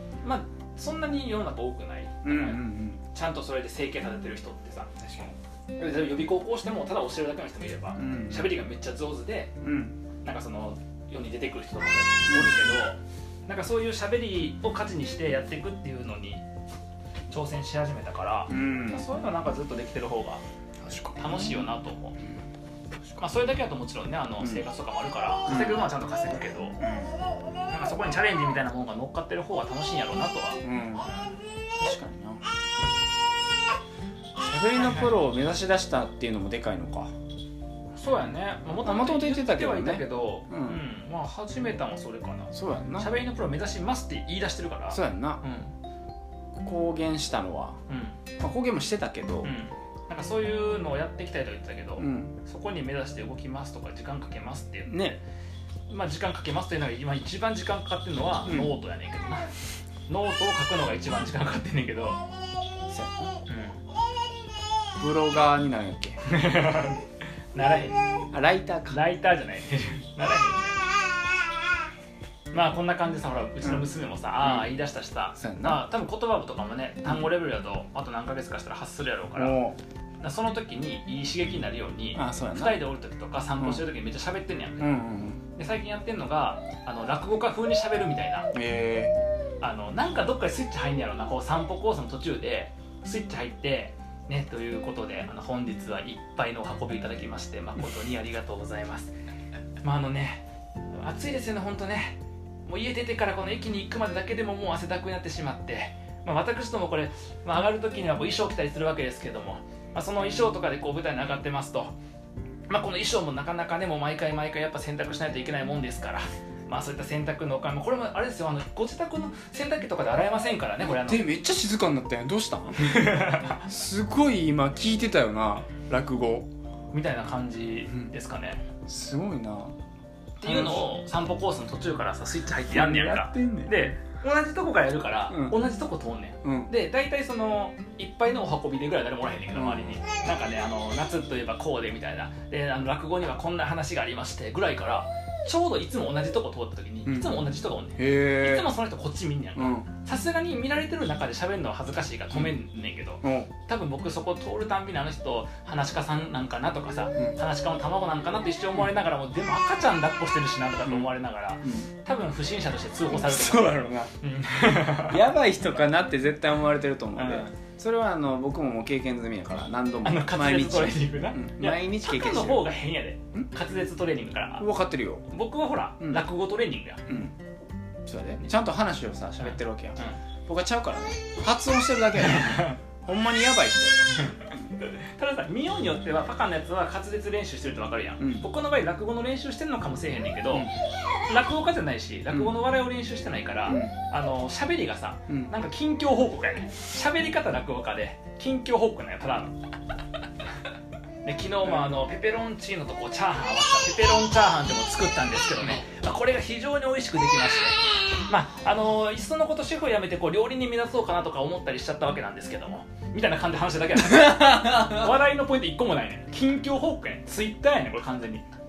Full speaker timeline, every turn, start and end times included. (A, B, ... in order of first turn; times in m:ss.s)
0:00.2-0:09.5 A
0:02.2-0:03.0 B
0:08.0-0:08.5 B
0:09.6-0:10.0 B
0:10.2-0:16.4 A
0:12.3-0:12.8 B
0:17.3-0:20.4 A
0:18.5-0:19.0 B
0:20.8-0:21.7 B
0:21.2-0:22.2 A
0:23.2-0:26.8 A
0:24.4-0:24.6 B
0:25.5-0:25.8 B
0:26.8-0:27.1 B
0:27.7-0:31.3 A
0:30.6-0:31.1 B
0:31.7-0:32.5 B
0:34.4-0:37.1 B
0:37.9-0:45.7 A
0:38.8-0:40.8 B
0:42.5-0:43.1 B
0:44.9-0:45.4 B
0:46.6-0:47.8 B
0:47.9-0:48.2 A
0:48.4-0:49.5 B
0:49.4-0:55.2 A
0:52.0-0:52.4 B
0:54.9-0:55.2 B
0:55.9-0:59.5 A
1:00.1-1:02.2 A
1:02.9-1:03.4 B
1:03.5-1:03.8 A
1:05.0-1:06.2 B
1:06.2-1:07.0 A
1:07.5-1:08.0 A
1:08.3-1:09.0 B
1:08.9-1:10.8 A
1:12.5-1:19.6 A
1:14.4-1:14.7 B
1:15.4-1:15.8 B
1:19.4-1:19.8 B
1:20.2-1:24.9 A
1:22.2-1:22.8 B
1:24.8-1:25.4 B
1:25.6-1:28.5 A
1:28.5-1:29.2 B
1:29.6-1:39.1 A
1:39.8-1:52.0 A
1:52.7-2:01.3 A
2:00.8-2:06.5 B
2:02.8-2:03.7 A
2:06.9-2:08.6 A
2:08.8-2:09.8 B
2:10.4-2:10.9 B
2:10.4-2:45.2 A
2:12.7-2:13.9 B
2:15.3-2:15.6 B
2:16.4-2:16.7 B
2:19.5-2:20.0 B
2:27.1-2:28.8 B
2:29.6-2:29.9 B
2:33.2-2:33.5 B
2:40.8-2:41.1 B
2:43.1-2:44.1 B
2:45.0-2:52.7 B
2:47.2-2:47.6 A
2:50.0-2:54.7 A
2:54.6-2:55.2 B
2:55.3-2:57.0 A
2:57.1-2:57.4 B
2:58.0-3:04.5 B
2:59.4-3:00.2 A
3:02.3-3:02.8 A
3:04.3-3:19.6 A
3:08.2-3:08.5 B
3:13.7-3:13.9 B
3:21.2-3:38.5 A
3:34.0-3:35.2 B